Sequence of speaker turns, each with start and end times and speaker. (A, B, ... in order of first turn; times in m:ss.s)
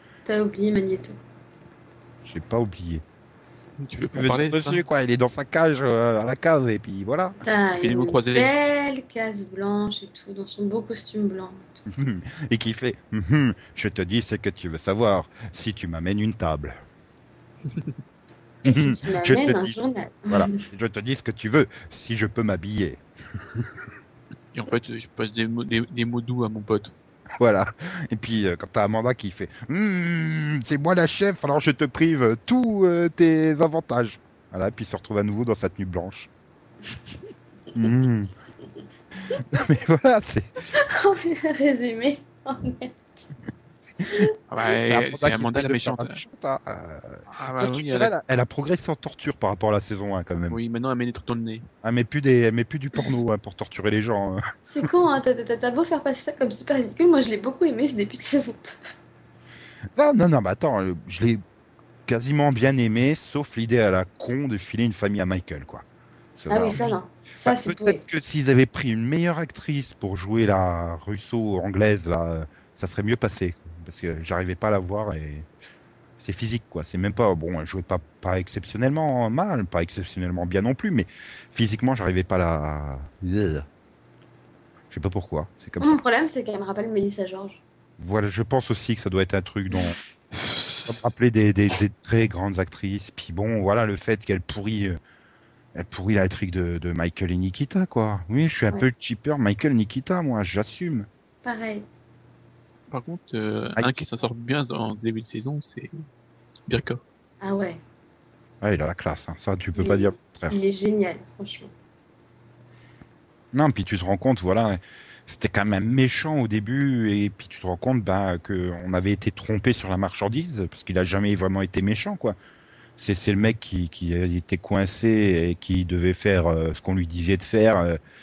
0:00.2-0:01.2 A
0:02.2-0:03.0 B
0:03.8-0:04.8 C
0:04.0-0:07.4 B
0:07.4-0:11.6 A
0:07.8-0:08.5 C
0:11.9-0:16.8 B
0:18.6-0:20.6 A
0:18.6-0:23.7 B
0:24.5-0:26.9 C
0:27.4-0:36.3 B
0:37.7-0:38.3 B
0:39.5-0:40.5 B
0:40.7-0:42.9 A
0:44.5-0:46.2 C
0:44.8-0:50.6 B
0:47.3-0:48.1 C
0:50.5-0:51.6 C
0:51.8-0:54.4 B
0:54.7-0:58.8 A
0:59.9-1:01.4 B
1:02.1-1:05.8 B
1:06.4-1:06.8 B
1:06.5-1:08.0 A
1:07.4-1:15.5 B
1:16.2-1:23.6 B
1:24.9-1:26.0 B
1:25.8-1:27.6 A
1:28.0-1:30.0 B
1:30.9-1:35.0 B
1:35.7-1:41.1 B
1:41.4-1:41.8 A
1:42.9-1:46.0 C
1:43.8-1:44.0 B
1:46.7-1:47.0 C
1:47.4-1:47.8 A
1:48.6-1:50.6 B
1:49.8-1:51.7 A
1:53.5-2:02.4 B
2:03.0-2:08.0 B